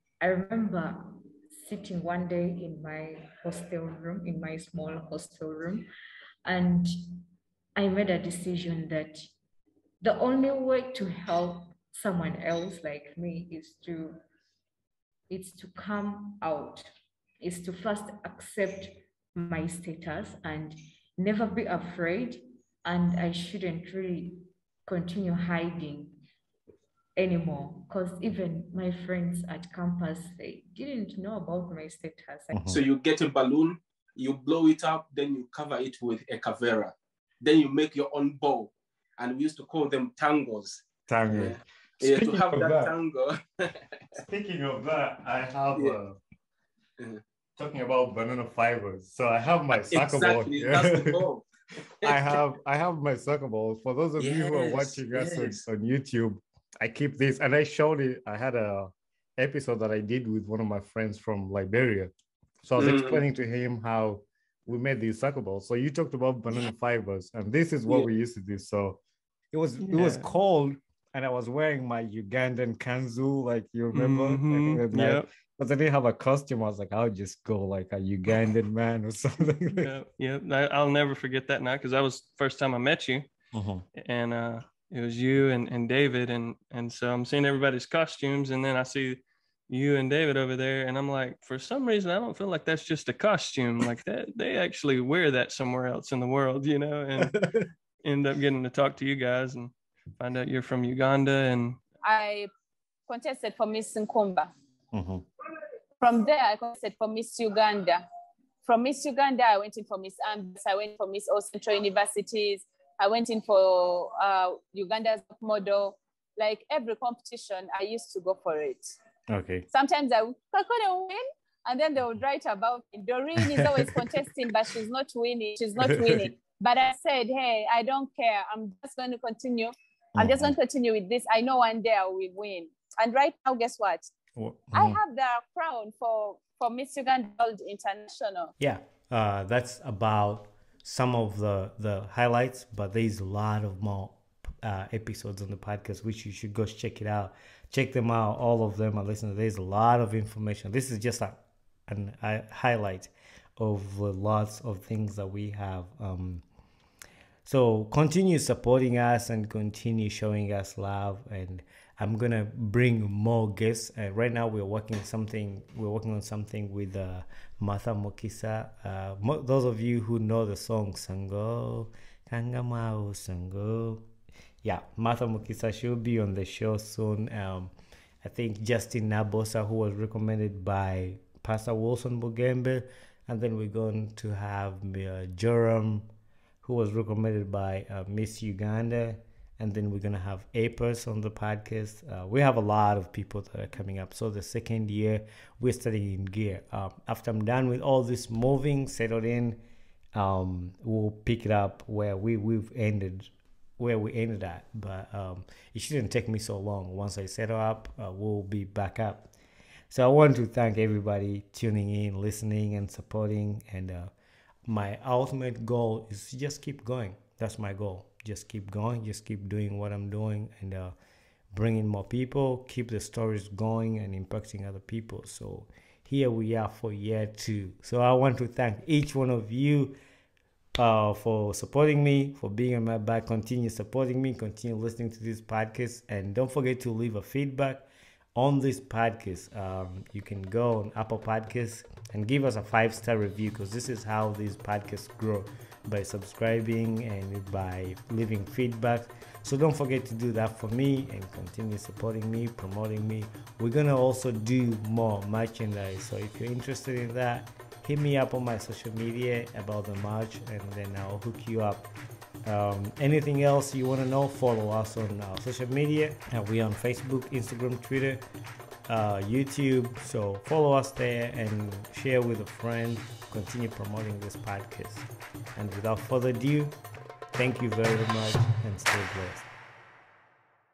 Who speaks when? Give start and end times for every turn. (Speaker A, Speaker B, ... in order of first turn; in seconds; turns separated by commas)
Speaker A: 0.2-5.9, Speaker A: 6.4-7.2, Speaker A: 7.8-9.3, Speaker A: 10.0-14.2, Speaker A: 15.3-16.9, Speaker A: 17.4-26.2, Speaker A: 27.1-32.8, Speaker B: 32.5-32.8, Speaker C: 32.7-44.2, Speaker B: 41.1-42.9, Speaker B: 44.2-46.2, Speaker B: 47.6-51.2, Speaker C: 49.8-51.4, Speaker B: 52.0-62.1, Speaker C: 52.0-52.3, Speaker C: 54.2-55.6, Speaker B: 62.6-69.0, Speaker C: 62.8-63.2, Speaker B: 69.5-79.9, Speaker D: 69.8-70.3, Speaker D: 73.9-75.3, Speaker D: 79.8-83.3, Speaker B: 83.5-83.8, Speaker D: 84.0-97.4, Speaker D: 98.0-101.8, Speaker E: 102.0-102.5, Speaker E: 103.1-104.5, Speaker B: 104.9-105.2, Speaker E: 106.0-108.0, Speaker E: 108.6-118.9, Speaker B: 119.3-119.6, Speaker E: 119.7-134.1, Speaker B: 125.8-126.3, Speaker B: 130.2-130.5, Speaker B: 134.4-135.0, Speaker E: 134.7-138.5, Speaker B: 138.6-156.4, Speaker B: 157.4-174.1, Speaker B: 174.6-177.7, Speaker B: 178.2-186.1, Speaker B: 186.6-199.6, Speaker B: 200.1-209.3, Speaker B: 209.9-214.1, Speaker B: 214.7-220.9, Speaker B: 221.5-229.9, Speaker B: 230.8-261.9, Speaker B: 262.4-268.2, Speaker B: 268.9-276.8, Speaker B: 277.3-279.4